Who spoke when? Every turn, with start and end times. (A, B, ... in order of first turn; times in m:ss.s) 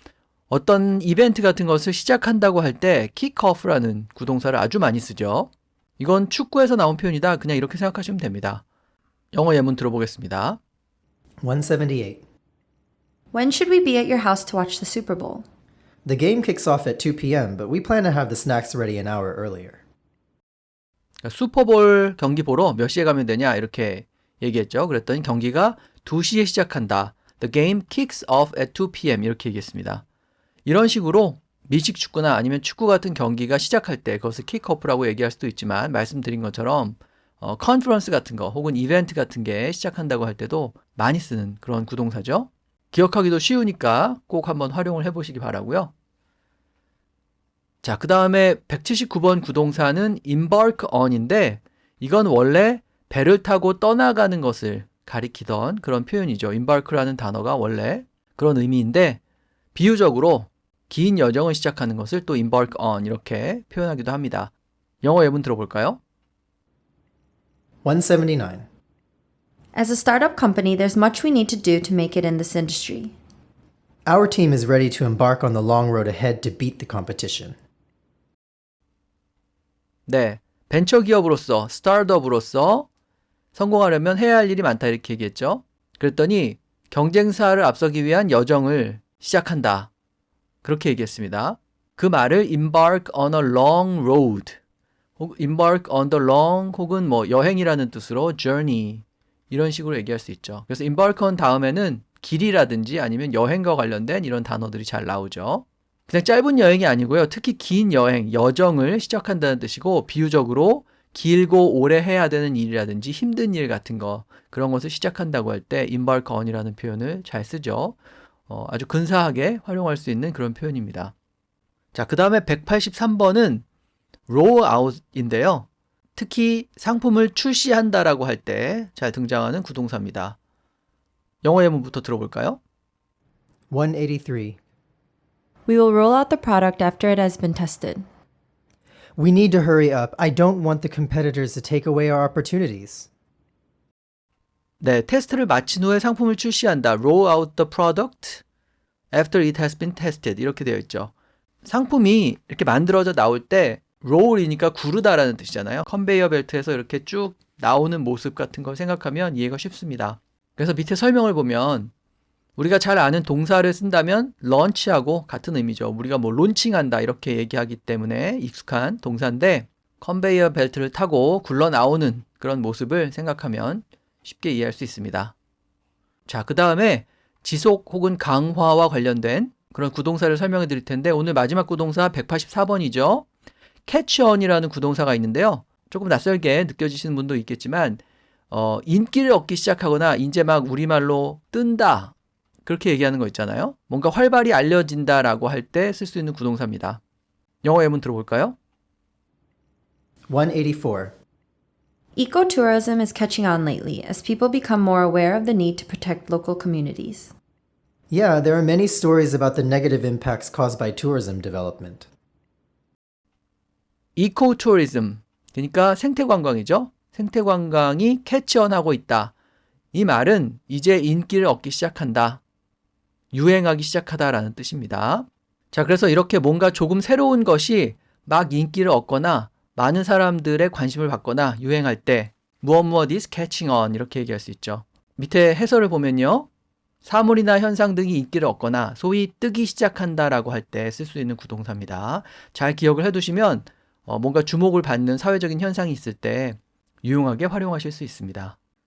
0:00.5-0:08.6 A
0:09.3-0:10.6 A
0:11.4-0:12.2 B
0:13.3-0:15.4 C
0:16.0-0:19.8 B
0:21.2-0:30.0 A
0:30.6-0:45.9 A
0:47.8-0:59.2 A
0:59.7-1:06.0 A
1:07.8-1:08.6 B
1:09.7-1:13.2 C
1:14.0-1:17.6 B
1:20.1-1:22.9 A
1:23.5-1:29.9 A
1:30.6-1:34.6 A
1:35.2-1:58.0 A
1:58.5-2:01.1 A
2:01.9-2:03.6 A
2:04.3-2:10.4 A
2:11.4-2:12.6 A
2:13.7-2:14.6 B
2:15.7-2:18.1 C
2:19.2-2:23.1 B
2:24.8-2:28.4 A
2:29.1-2:41.9 A
2:42.6-2:55.3 A
2:56.3-3:03.3 A
3:03.9-3:17.0 A
3:17.6-3:18.6 A
3:20.3-3:21.1 B
3:22.2-3:27.3 C
3:28.1-3:32.1 B
3:34.2-3:39.3 A
3:39.9-3:42.4 A
3:43.3-3:56.5 A
3:57.0-4:08.6 A